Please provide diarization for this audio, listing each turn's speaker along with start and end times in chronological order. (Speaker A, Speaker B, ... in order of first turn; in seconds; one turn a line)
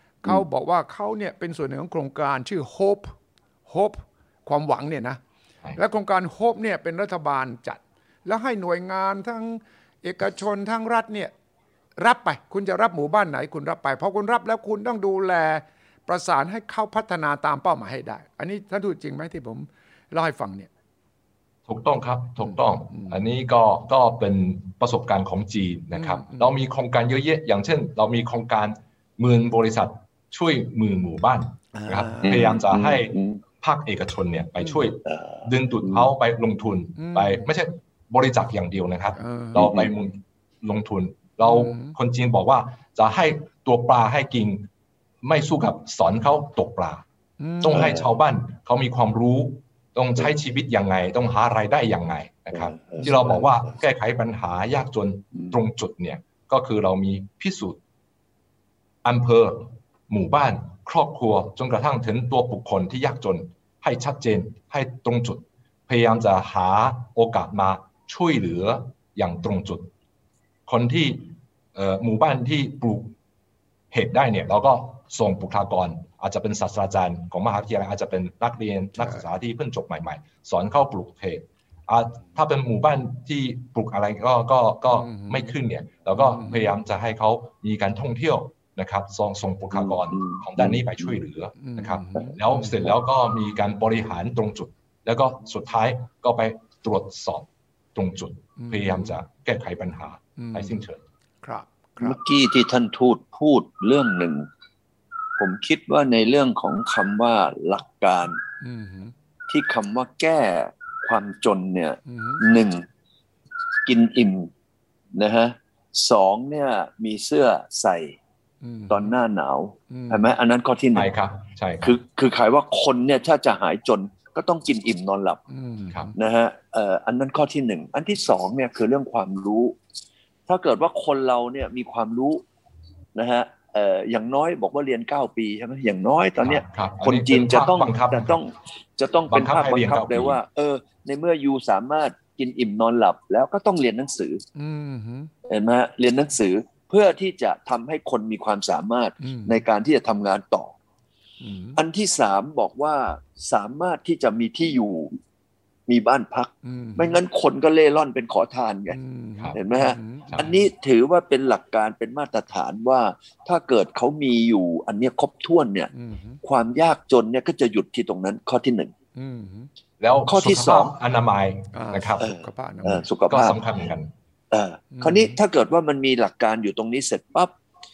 Speaker A: 0.2-3.1
Speaker A: 3.7-5.2
Speaker A: 5.8-11.3
Speaker A: 12.0-20.7
Speaker B: 21.7-44.7
Speaker A: 22.4-23.2
Speaker A: 25.9-26.5
Speaker A: 31.7-32.5
Speaker C: 32.2-33.4
Speaker A: 34.6-34.9
Speaker C: 35.0-36.1
Speaker A: 37.0-37.5
Speaker A: 39.2-39.6
Speaker C: 39.5-39.9
Speaker A: 41.4-41.9
Speaker B: 45.2-47.0
Speaker A: 47.4-47.9
Speaker B: 47.6-57.8
Speaker C: 47.7-48.0
Speaker C: 52.5-53.1
Speaker B: 59.0-69.9
Speaker B: 70.7-73.2
Speaker B: 73.9-101.0
Speaker A: 84.9-85.5
Speaker A: 86.1-86.7
Speaker C: 89.7-90.9
Speaker A: 91.6-92.9
Speaker A: 98.6-99.2
Speaker A: 100.4-100.8
Speaker A: 101.4-102.2
Speaker C: 102.0-104.5
Speaker C: 105.4-108.4
Speaker A: 108.6-109.1
Speaker C: 109.5-112.8
Speaker A: 112.1-112.5
Speaker C: 113.8-114.5
Speaker C: 115.1-118.2
Speaker A: 118.6-119.1
Speaker C: 118.9-121.1
Speaker A: 119.9-120.3
Speaker B: 120.9-122.0
Speaker C: 121.8-125.4
Speaker A: 125.5-126.2
Speaker C: 126.2-129.8
Speaker C: 130.5-132.4
Speaker C: 133.1-144.4
Speaker B: 136.4-138.4
Speaker B: 139.3-140.4
Speaker A: 144.6-145.3
Speaker C: 145.4-150.7
Speaker A: 149.2-149.6
Speaker A: 151.4-151.8
Speaker C: 151.8-155.2
Speaker C: 155.9-159.0
Speaker A: 156.6-157.2
Speaker A: 158.9-160.7
Speaker C: 159.5-165.9
Speaker A: 165.9-166.4
Speaker C: 166.4-168.9
Speaker A: 169.1-169.7
Speaker B: 170.0-172.3
Speaker C: 170.3-170.9
Speaker A: 171.7-173.1
Speaker C: 172.2-173.6
Speaker B: 173.3-174.1
Speaker C: 174.5-177.6
Speaker A: 174.9-175.4